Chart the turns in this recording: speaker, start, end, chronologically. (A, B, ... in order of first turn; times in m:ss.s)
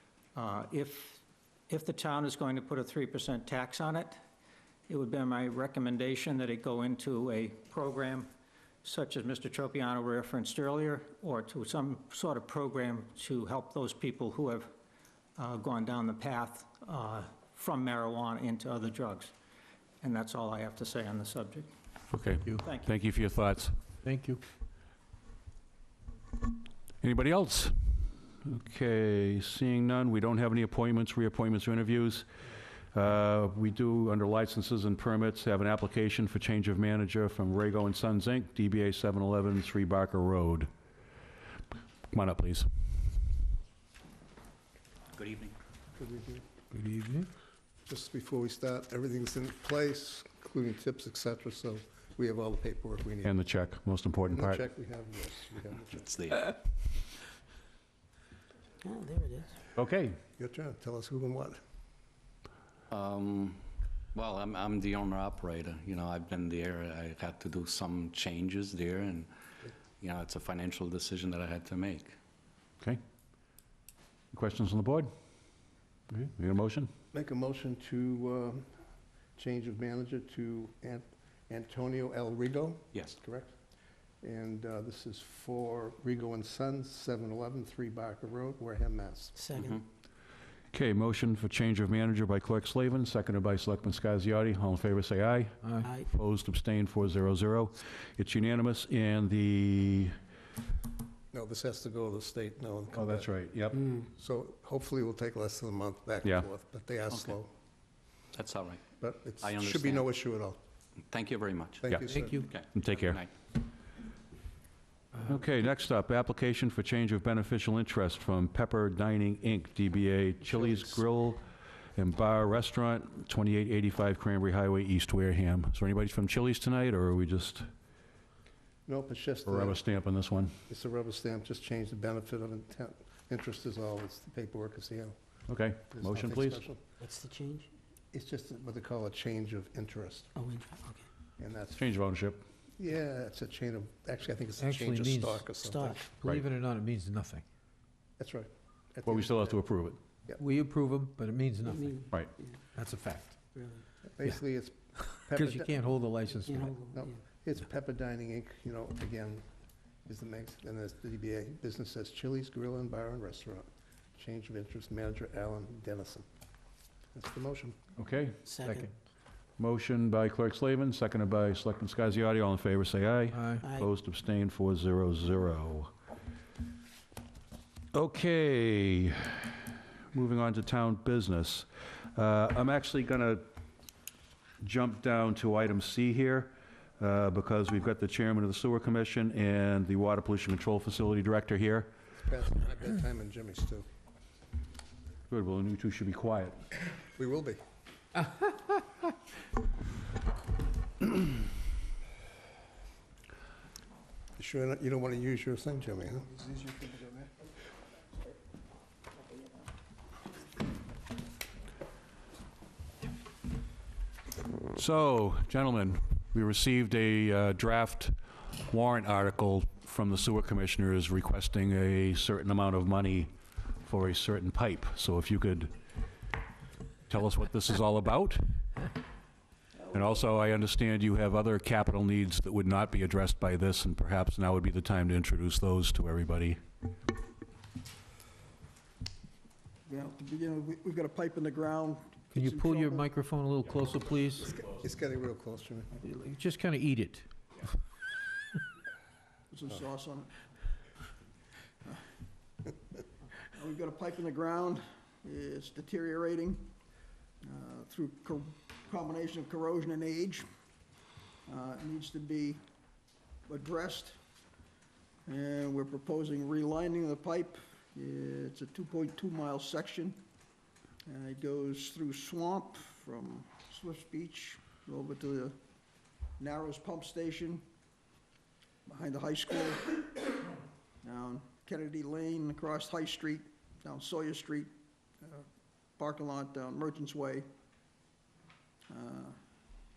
0:00.4-0:04.2 A
0:04.9-0:08.3 A
0:08.8-0:14.7 A
0:15.4-0:19.3 A
0:20.0-0:21.7 A
0:22.1-0:23.7 B
0:22.6-0:23.0 A
0:24.0-0:24.4 C
0:27.0-0:27.7 B
0:28.4-0:32.3 B
0:32.9-0:40.7 B
0:42.1-0:42.7 B
0:45.2-0:45.5 D
0:46.0-0:46.4 E
0:46.7-0:47.3 C
0:47.9-0:53.4 E
0:53.2-0:54.6 B
0:54.3-0:56.0 E
0:55.9-0:56.6 D
0:58.9-0:59.5 F
0:59.8-1:00.2 B
1:00.4-1:01.6 E
1:02.9-1:03.6 D
1:04.1-1:09.3 D
1:10.0-1:12.2 D
1:14.3-1:15.1 B
1:16.1-1:16.9 B
1:17.1-1:18.7 E
1:19.4-1:23.5 E
1:24.2-1:29.5 E
1:29.4-1:29.6 F
1:29.6-1:29.8 D
1:30.7-1:40.1 B
1:35.6-1:35.9 C
1:41.3-1:43.3 E
1:42.9-1:43.8 B
1:43.9-1:47.5 E
1:48.3-1:48.8 D
1:49.0-1:50.6 E
1:49.4-1:50.1 D
1:51.1-1:53.3 D
1:51.8-1:52.4 E
1:51.9-1:52.2 B
1:52.1-1:52.5 C
1:52.7-1:53.2 B
1:55.3-2:01.4 B
2:02.0-2:07.7 B
2:08.9-2:09.8 E
2:09.5-2:10.5 B
2:10.7-2:15.2 E
2:15.5-2:16.6 B
2:15.9-2:16.8 E
2:17.0-2:17.6 F
2:18.1-2:20.3 E
2:20.4-2:21.0 F
2:21.4-2:21.8 E
2:21.8-2:22.4 B
2:22.8-2:26.0 E
2:24.6-2:25.5 C
2:25.6-2:26.0 F
2:26.1-2:27.4 C
2:28.2-2:29.6 E
2:29.1-2:30.0 B
2:30.4-2:33.4 C
2:34.2-2:35.8 E
2:35.3-2:36.8 C
2:36.8-2:39.4 E
2:40.1-2:46.3 E
2:47.2-2:47.8 E
2:48.0-2:48.7 B
2:48.5-2:48.9 F
2:49.6-2:55.9 B
2:53.3-2:53.6 C
2:57.9-3:03.4 B
3:04.6-3:11.9 B
3:12.2-3:13.9 E
3:15.3-3:16.6 B
3:17.2-3:17.6 E
3:24.4-3:27.1 E
3:34.7-3:43.3 B
3:43.8-3:45.7 B
3:47.1-3:48.4 B
3:49.8-3:50.3 G
3:49.9-3:56.6 B
3:59.9-4:03.1 G
4:02.3-4:04.5 C
4:04.4-4:05.9 E
4:06.0-4:07.3 C
4:09.5-4:10.3 G
4:13.6-4:16.8 G
4:17.4-4:20.5 G
4:21.4-4:22.6 G
4:23.5-4:24.2 G
4:25.3-4:30.2 G
4:31.0-4:35.6 G
4:36.4-4:37.7 G
4:38.9-4:40.4 G
4:41.0-4:45.5 G
4:46.0-4:47.5 G
4:48.9-4:49.4 G